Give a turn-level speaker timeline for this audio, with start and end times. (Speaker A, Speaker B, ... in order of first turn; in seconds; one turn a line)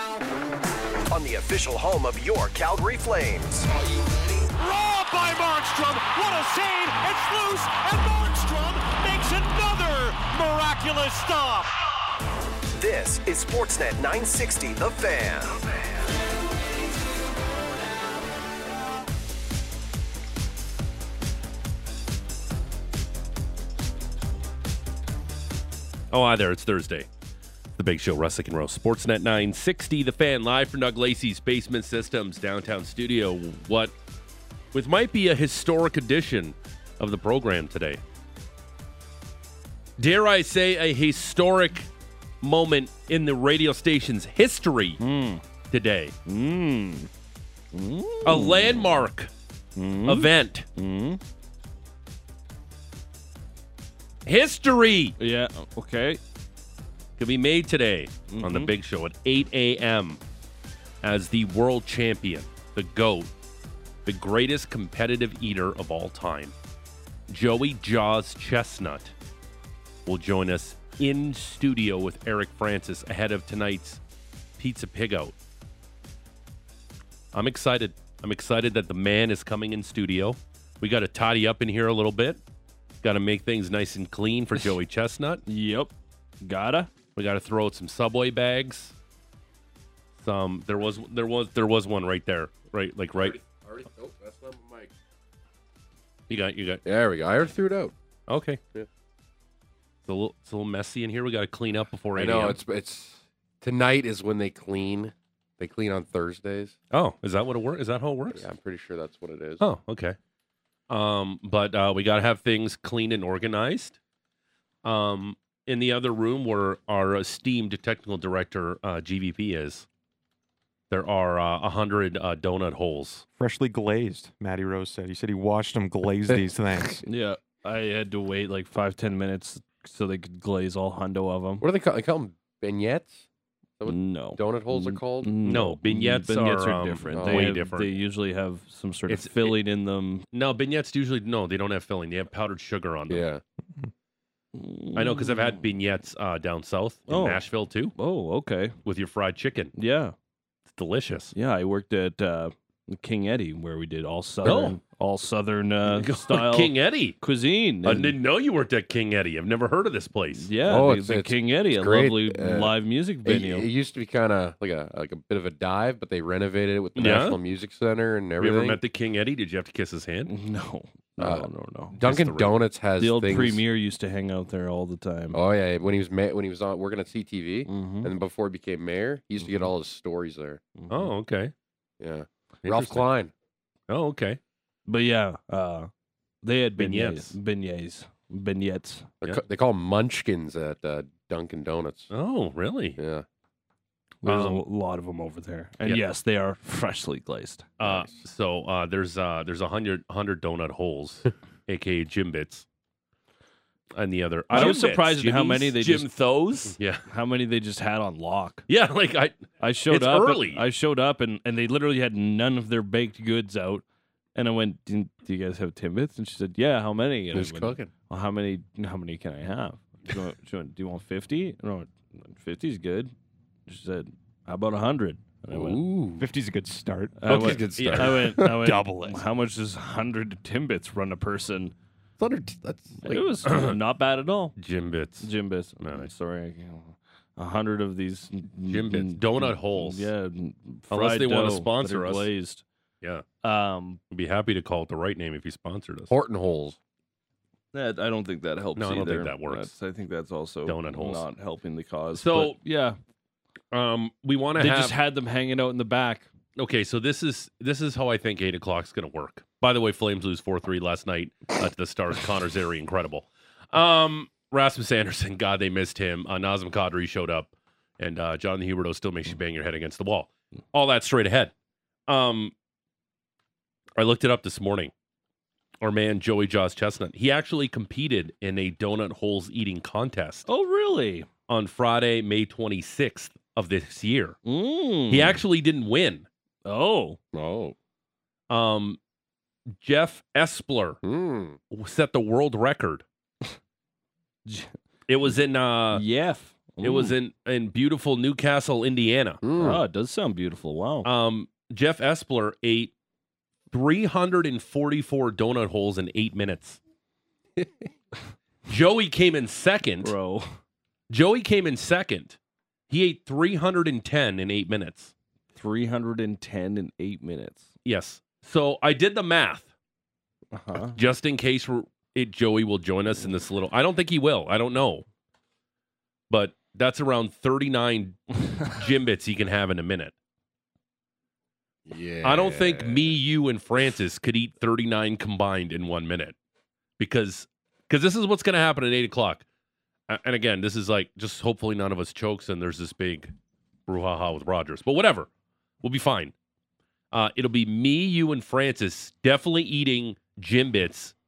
Speaker A: 1.1-3.7
Speaker B: 4.5-11.7
Speaker A: 12.8-15.6
Speaker C: 26.1-27.1
Speaker C: 27.8-33.9
Speaker C: 34.7-38.0
Speaker C: 40.0-41.9
Speaker C: 42.4-45.0
Speaker D: 45.0-45.4
Speaker C: 45.7-46.1
Speaker D: 46.3-47.1
Speaker D: 47.7-48.9
Speaker C: 48.2-49.3
Speaker D: 49.8-51.2
Speaker C: 50.1-50.7
Speaker C: 54.3-55.2
Speaker D: 55.2-56.2
Speaker C: 57.2-60.2
Speaker D: 58.3-58.7
Speaker C: 61.0-63.3
Speaker C: 64.0-66.5
Speaker C: 67.3-69.1
Speaker C: 70.1-74.0
Speaker C: 74.6-75.4
Speaker C: 77.3-82.4
Speaker C: 83.0-85.4
Speaker D: 85.5-85.9
Speaker D: 86.4-86.9
Speaker C: 87.2-89.0
Speaker C: 90.2-93.4
Speaker E: 93.2-94.9
Speaker C: 96.3-96.8
Speaker E: 96.8-97.9
Speaker C: 98.3-98.6
Speaker C: 100.1-102.6
Speaker E: 102.2-106.8
Speaker C: 106.9-108.5
Speaker E: 108.3-109.7
Speaker C: 109.6-110.2
Speaker C: 110.9-114.0
Speaker C: 114.8-119.9
Speaker C: 120.9-123.2
Speaker F: 123.4-127.0
Speaker E: 126.3-127.0
Speaker D: 127.1-131.7
Speaker E: 131.6-133.2
Speaker E: 133.8-135.6
Speaker D: 133.9-140.2
Speaker C: 135.5-137.9
Speaker E: 137.1-137.6
Speaker C: 139.1-139.6
Speaker C: 140.3-143.3
Speaker E: 143.1-143.4
Speaker D: 144.6-145.6
Speaker C: 144.9-147.9
Speaker D: 147.1-147.4
Speaker D: 148.0-148.8
Speaker C: 148.8-149.7
Speaker D: 149.8-150.2
Speaker C: 150.7-151.3
Speaker D: 151.3-158.2
Speaker E: 154.5-154.7
Speaker C: 154.5-154.7
Speaker C: 155.9-157.2
Speaker C: 157.8-160.5
Speaker D: 160.4-163.7
Speaker E: 160.6-168.8
Speaker C: 167.0-167.4
Speaker C: 168.4-170.3
Speaker D: 170.3-171.9
Speaker E: 171.2-173.7
Speaker C: 172.0-172.6
Speaker D: 173.0-175.4
Speaker E: 175.3-180.6
Speaker D: 177.7-178.1
Speaker D: 180.8-181.1
Speaker C: 180.9-181.5
Speaker E: 182.0-183.3
Speaker C: 182.7-183.1
Speaker C: 183.9-184.4
Speaker D: 184.9-185.9
Speaker D: 186.4-189.1
Speaker C: 186.8-187.3
Speaker E: 189.2-192.1
Speaker C: 192.1-193.0
Speaker E: 193.0-193.2
Speaker D: 194.2-197.7
Speaker C: 194.3-194.6
Speaker E: 197.8-198.1
Speaker C: 197.8-202.7
Speaker C: 203.9-207.1
Speaker D: 204.5-206.1
Speaker D: 207.1-208.6
Speaker C: 208.7-210.6
Speaker D: 209.6-213.8
Speaker D: 214.3-223.1
Speaker E: 217.3-217.9
Speaker D: 223.7-225.8
Speaker E: 225.5-226.3
Speaker F: 226.2-227.3
Speaker D: 227.2-231.8
Speaker E: 227.3-228.6
Speaker C: 227.3-228.3
Speaker F: 228.4-229.2
Speaker E: 232.2-233.7
Speaker D: 233.0-234.6
Speaker C: 234.6-236.1
Speaker D: 235.2-242.6
Speaker C: 238.7-240.1
Speaker C: 240.9-242.3
Speaker D: 243.4-244.0
Speaker C: 244.1-246.1
Speaker E: 246.1-246.8
Speaker D: 247.7-253.0
Speaker C: 248.8-249.7
Speaker C: 250.7-251.3
Speaker C: 252.2-252.6
Speaker C: 253.7-255.0
Speaker D: 254.6-256.3
Speaker C: 256.6-271.5
Speaker C: 272.1-272.5
Speaker C: 274.0-274.9
Speaker C: 275.8-280.5
Speaker D: 280.5-281.3
Speaker C: 281.5-284.4
Speaker D: 284.4-285.4
Speaker C: 285.1-286.3
Speaker D: 286.6-287.2
Speaker E: 287.3-287.8
Speaker C: 288.5-289.0
Speaker C: 289.8-291.0
Speaker E: 291.0-291.6
Speaker C: 291.7-293.0
Speaker D: 294.5-294.7
Speaker C: 295.1-296.0
Speaker D: 295.9-297.1
Speaker C: 296.8-299.7
Speaker E: 299.4-299.9
Speaker D: 299.6-301.1
Speaker C: 301.1-302.9
Speaker C: 303.7-306.8
Speaker C: 308.7-310.1
Speaker D: 310.0-310.5
Speaker C: 311.1-312.4
Speaker C: 312.9-315.1
Speaker D: 315.6-317.7
Speaker C: 317.9-319.7
Speaker D: 320.5-321.0
Speaker C: 320.9-325.1
Speaker C: 326.3-330.1
Speaker E: 331.9-333.2
Speaker C: 332.2-336.4
Speaker C: 337.0-339.4
Speaker C: 340.1-343.3
Speaker C: 343.9-345.3
Speaker C: 345.8-346.3
Speaker C: 347.1-351.1